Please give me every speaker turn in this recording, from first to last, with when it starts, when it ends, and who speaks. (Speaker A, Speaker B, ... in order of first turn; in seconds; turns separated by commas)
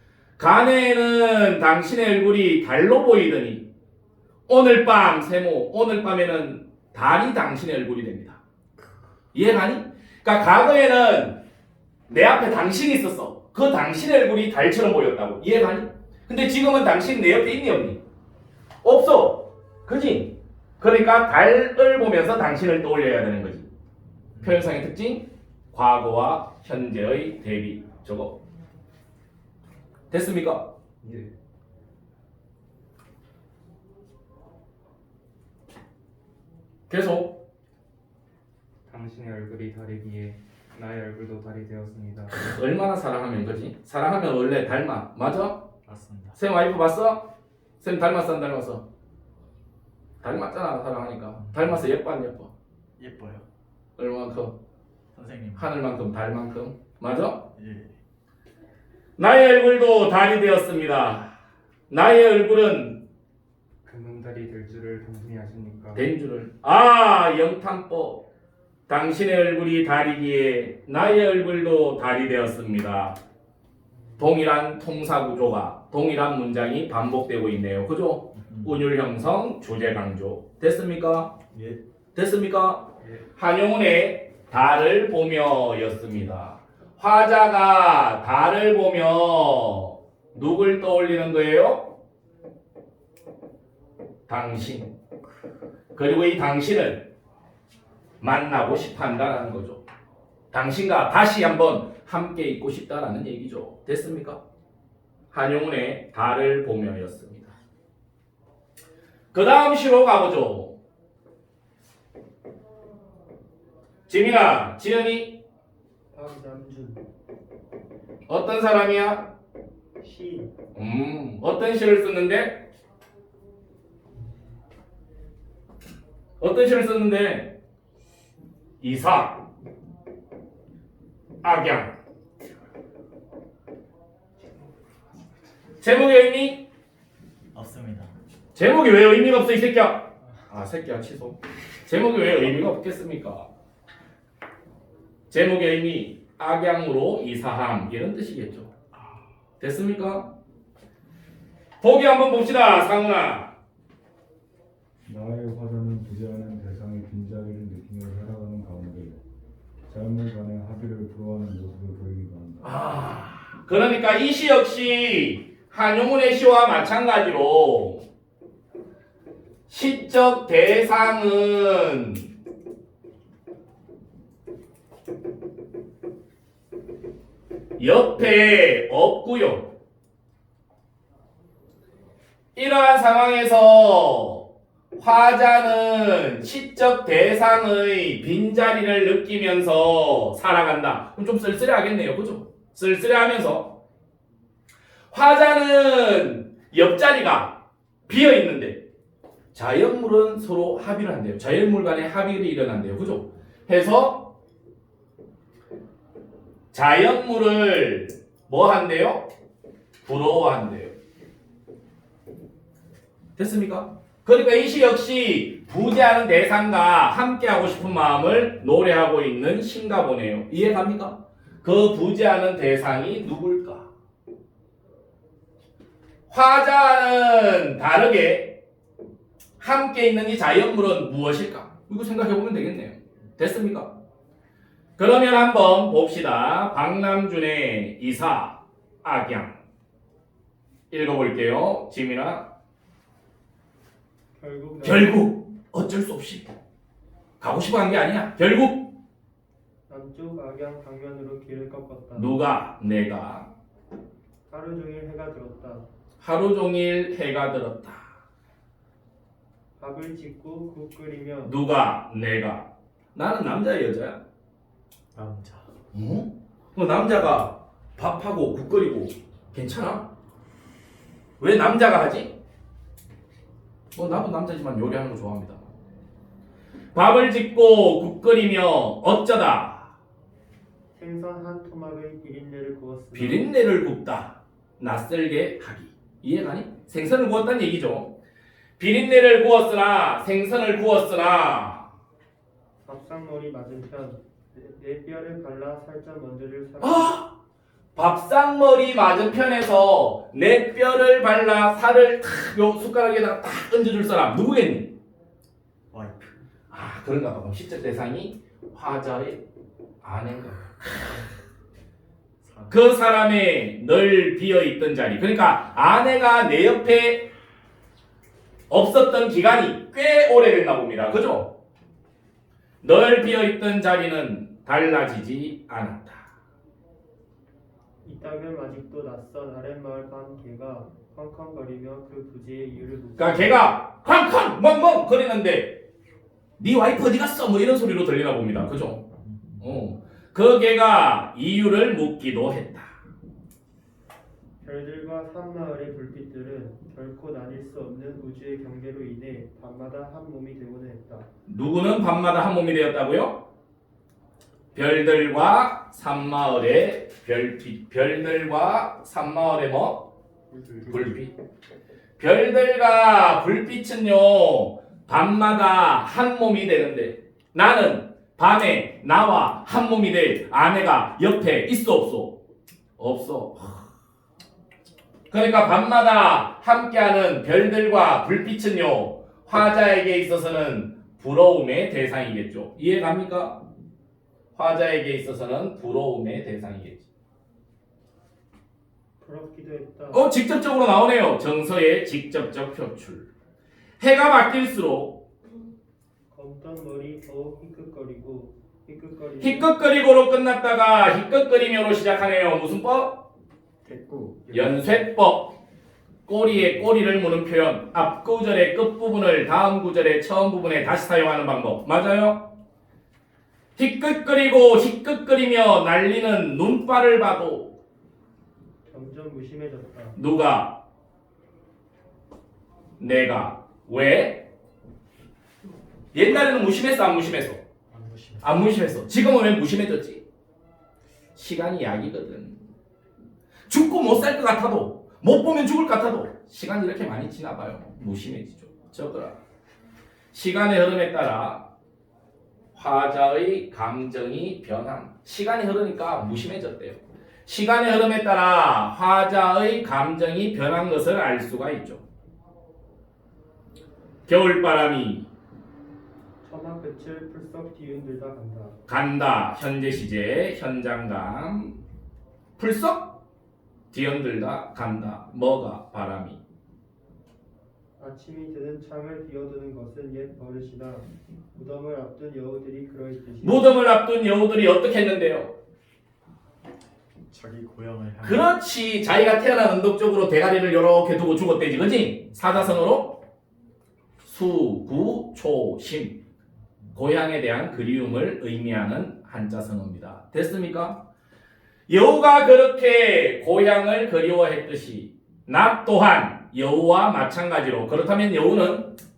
Speaker A: 0.4-3.6, Speaker A: 4.5-8.4, Speaker A: 9.3-11.4, Speaker A: 12.1-18.0, Speaker A: 18.8-23.7, Speaker B: 24.3-24.7, Speaker A: 24.4-28.4, Speaker A: 30.1-30.7, Speaker C: 31.0-31.3, Speaker A: 36.9-37.3, Speaker C: 38.8-42.4, Speaker A: 42.3-45.6, Speaker B: 45.8-46.4, Speaker A: 46.4-47.3, Speaker A: 47.8-48.8, Speaker A: 50.2-52.5, Speaker B: 51.4-51.8, Speaker B: 53.0-53.4, Speaker A: 54.0-54.5, Speaker B: 55.1-55.7, Speaker A: 55.6-57.4, Speaker B: 57.5-57.9, Speaker A: 59.2-61.3, Speaker A: 61.9-63.0, Speaker C: 63.8-66.1, Speaker A: 65.9-68.2, Speaker A: 68.9-73.2, Speaker C: 74.0-74.3, Speaker A: 74.2-81.3, Speaker B: 78.3-78.8, Speaker B: 81.5-81.8, Speaker A: 82.1-91.9, Speaker A: 94.3-94.9, Speaker A: 95.9-97.1, Speaker A: 98.2-99.8, Speaker A: 100.5-104.4, Speaker A: 105.3-107.5, Speaker A: 109.3-110.7, Speaker A: 114.1-115.3, Speaker D: 116.1-117.0, Speaker A: 118.3-119.3, Speaker D: 120.0-120.5, Speaker A: 120.7-122.6, Speaker A: 126.4-127.5, Speaker A: 128.8-129.4, Speaker A: 131.4-131.9, Speaker A: 135.8-136.6, Speaker B: 137.5-138.2, Speaker A: 138.5-143.5, Speaker A: 145.3-148.7, Speaker A: 149.6-150.3, Speaker A: 151.8-153.5, Speaker E: 155.0-159.2, Speaker E: 159.9-162.7, Speaker A: 162.6-168.0, Speaker A: 169.7-172.3, Speaker A: 177.8-179.7, Speaker A: 182.5-184.4, Speaker A: 185.0-193.8, Speaker A: 195.1-198.8, Speaker A: 199.5-204.3, Speaker A: 206.7-209.3, Speaker A: 210.0-210.9, Speaker A: 213.4-223.9, Speaker A: 226.3-228.6, Speaker A: 229.6-233.9, Speaker A: 235.0-239.6, Speaker A: 240.9-242.5, Speaker D: 244.3-245.2, Speaker A: 244.8-246.5, Speaker A: 247.4-248.9, Speaker D: 249.9-252.3, Speaker A: 252.1-253.5, Speaker D: 254.5-255.9, Speaker A: 256.2-258.0, Speaker D: 259.8-261.6, Speaker A: 261.4-264.2, Speaker B: 265.1-265.7, Speaker A: 265.9-270.1, Speaker A: 271.4-272.3, Speaker A: 273.9-275.6, Speaker A: 276.9-279.9, Speaker D: 280.9-283.5, Speaker A: 283.1-288.1, Speaker A: 288.8-291.9, Speaker D: 292.8-297.2, Speaker A: 296.8-297.3, Speaker A: 297.9-304.9, Speaker B: 305.9-306.4, Speaker A: 306.7-309.4, Speaker A: 310.0-311.0, Speaker B: 312.4-312.9, Speaker A: 312.7-317.3, Speaker A: 318.7-321.5, Speaker A: 322.8-326.3, Speaker D: 328.0-333.6, Speaker A: 333.2-335.8, Speaker A: 336.6-339.0, Speaker B: 339.1-339.8, Speaker A: 339.6-342.9, Speaker D: 344.6-351.3, Speaker A: 351.5-353.4, Speaker A: 354.8-360.1, Speaker D: 360.6-360.9, Speaker A: 360.9-361.3, Speaker A: 362.2-372.3, Speaker A: 373.0-373.9, Speaker A: 375.3-383.6, Speaker A: 384.5-387.0, Speaker D: 389.2-390.2, Speaker A: 390.1-393.3, Speaker A: 394.0-395.2, Speaker D: 396.3-399.7, Speaker A: 399.4-403.2, Speaker B: 403.8-405.0, Speaker A: 404.5-405.6, Speaker A: 406.3-412.4, Speaker A: 413.8-417.7, Speaker D: 418.9-420.2, Speaker A: 420.1-420.8, Speaker A: 423.0-424.4, Speaker A: 426.1-427.6, Speaker B: 427.9-428.6, Speaker A: 428.4-430.2, Speaker A: 431.4-432.6, Speaker A: 433.7-439.4, Speaker A: 440.3-441.6, Speaker A: 442.7-452.0, Speaker A: 454.3-455.3, Speaker D: 456.4-458.8, Speaker A: 458.9-461.8, Speaker A: 462.6-463.1, Speaker A: 463.9-466.4, Speaker D: 468.0-473.7, Speaker A: 473.4-475.5, Speaker B: 477.3-478.5, Speaker A: 478.2-483.2, Speaker A: 484.2-486.2, Speaker A: 486.9-491.0, Speaker A: 491.9-498.9